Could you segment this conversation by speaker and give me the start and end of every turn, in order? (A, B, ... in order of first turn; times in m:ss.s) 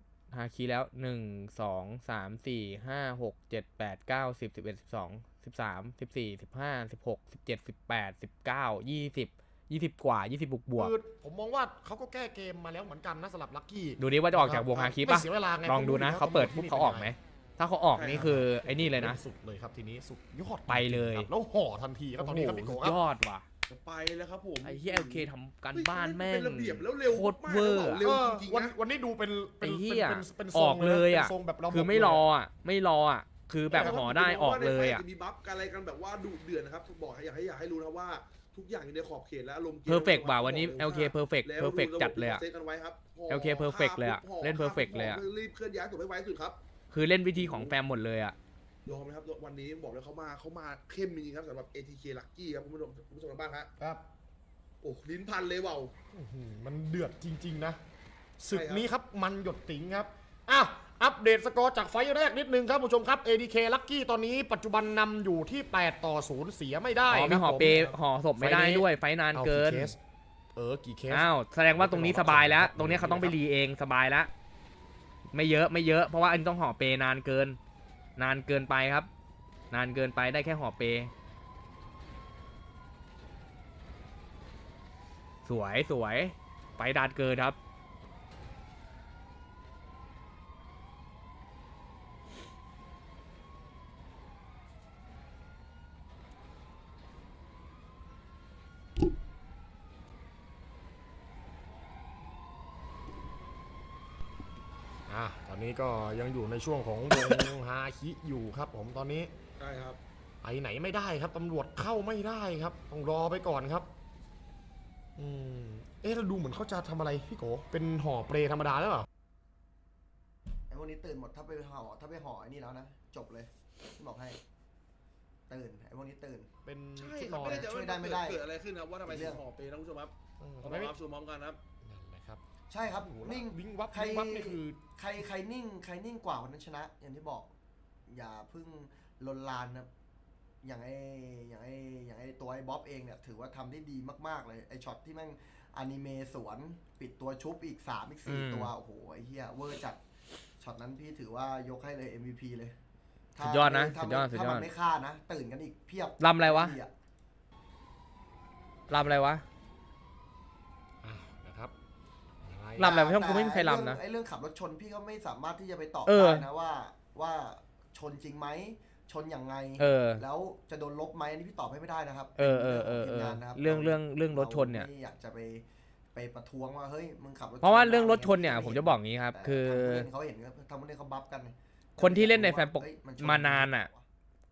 0:00.3-0:10.9 A
0:10.8-0:17.1 B
0:14.0-0:19.2 A
0:18.0-0:18.4 C
0:18.1-0:23.0 B
0:20.7-0:21.3 A
0:22.2-0:23.4 A
0:23.7-0:28.7 C
0:24.6-0:28.1 A
0:28.0-0:32.2 B
0:29.6-0:35.0 A
0:33.7-0:46.6 C
0:33.7-0:34.0 B
0:39.9-0:42.4 A
0:43.3-0:45.2 A
0:46.9-0:48.4 A
0:47.3-0:47.8 C
0:48.8-0:53.7 C
0:53.8-0:54.0 B
0:54.8-0:55.9 C
0:56.1-0:57.8 B
0:58.4-1:10.0 B
0:58.5-0:58.9 C
1:07.1-1:09.9 A
1:10.5-1:13.4 B
1:11.1-1:14.3 A
1:15.3-1:17.6 A
1:18.2-1:19.1 A
1:19.7-1:21.1 A
1:25.4-1:27.6 A
1:45.1-1:49.3 B
1:49.6-1:50.0 C
1:50.4-1:53.9 B
1:55.2-1:59.1 B
2:00.7-2:04.4 D
2:05.5-2:06.5 D
2:06.6-2:07.7 B
2:07.0-2:11.6 C
2:07.5-2:08.4 D
2:09.0-2:09.4 D
2:10.4-2:10.9 B
2:11.8-2:14.8 B
2:12.7-2:17.5 D
2:18.1-2:19.9 D
2:20.6-2:30.0 D
2:28.3-2:28.7 A
2:30.6-2:32.8 D
2:33.3-2:36.9 D
2:33.4-2:34.7 A
2:36.2-2:36.8 A
2:38.9-2:39.4 A
2:41.0-2:41.7 B
2:42.4-2:42.9 B
2:42.8-2:44.0 A
2:42.8-3:04.0 D
2:46.0-2:46.5 A
2:49.8-2:50.2 A
2:52.4-2:54.9 A
2:57.6-3:00.1 A
3:02.0-3:03.9 A